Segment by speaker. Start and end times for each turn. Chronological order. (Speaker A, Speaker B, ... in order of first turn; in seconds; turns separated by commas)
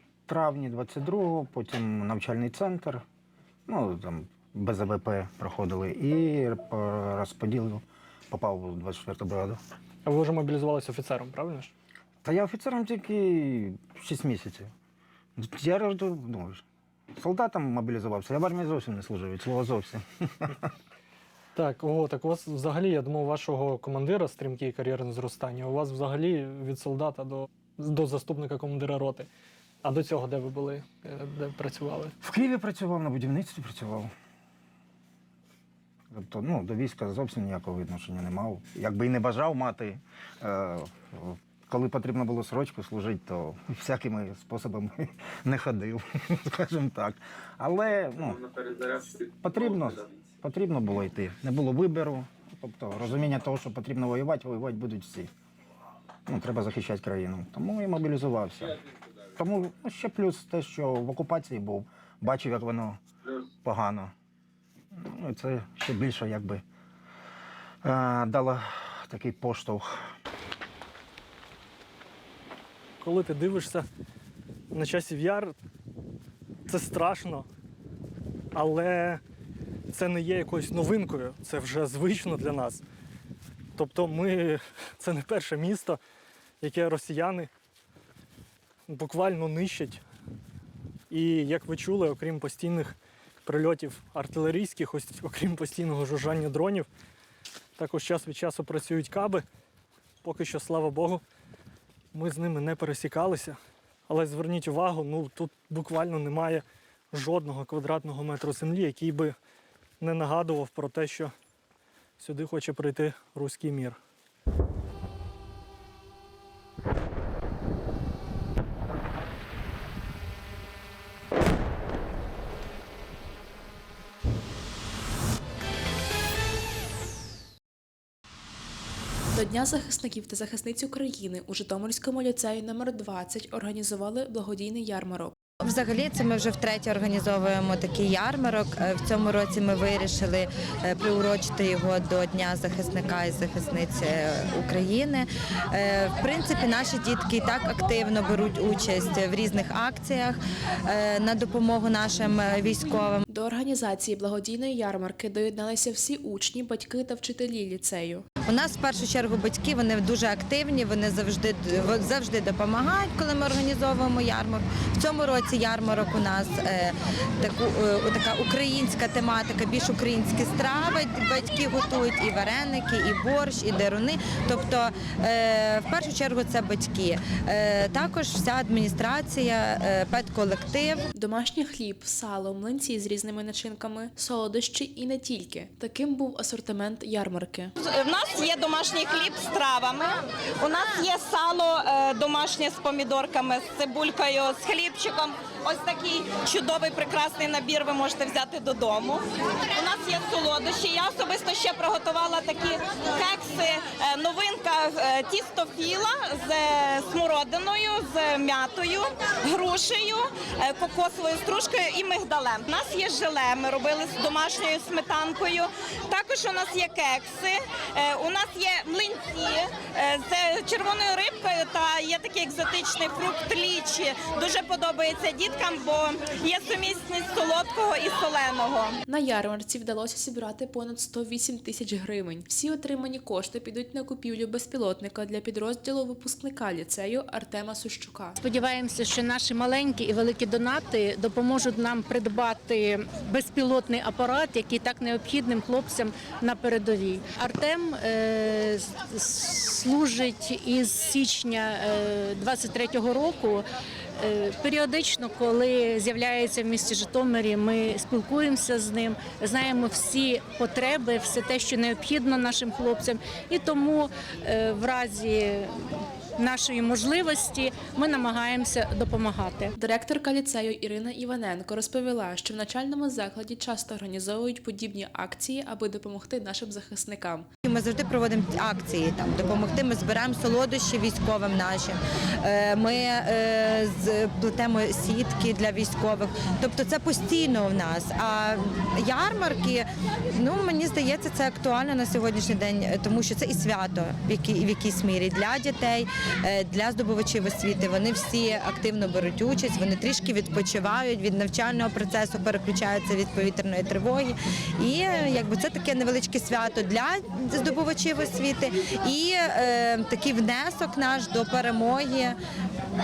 Speaker A: 0.3-3.0, Speaker A: 3.7-9.6, Speaker B: 10.0-11.7, Speaker A: 12.2-14.7, Speaker A: 15.4-16.6, Speaker A: 17.2-20.6, Speaker B: 21.5-29.3, Speaker B: 29.8-32.1, Speaker A: 32.2-34.1, Speaker A: 36.1-48.5, Speaker A: 49.3-55.3, Speaker A: 56.3-58.8, Speaker A: 59.4-63.0, Speaker A: 63.6-64.1, Speaker A: 64.9-66.6, Speaker A: 67.8-70.0, Speaker B: 73.0-73.8, Speaker B: 74.7-75.5, Speaker B: 76.7-77.5, Speaker B: 78.5-79.2, Speaker B: 79.9-82.8, Speaker B: 83.8-86.0, Speaker B: 86.6-87.5, Speaker B: 88.9-90.0, Speaker B: 91.1-96.9, Speaker B: 97.8-99.4, Speaker B: 100.2-101.2, Speaker B: 102.1-103.6, Speaker B: 104.1-109.3, Speaker B: 110.0-111.3, Speaker B: 112.2-114.0, Speaker C: 129.3-135.3, Speaker D: 135.6-153.2, Speaker C: 153.3-158.2, Speaker D: 158.5-181.0, Speaker C: 181.1-187.7, Speaker E: 187.8-229.0, Speaker C: 229.1-238.4, Speaker F: 238.4-253.6, Speaker F: 254.2-265.7, Speaker F: 266.4-269.7, Speaker C: 269.7-277.5, Speaker D: 277.6-312.4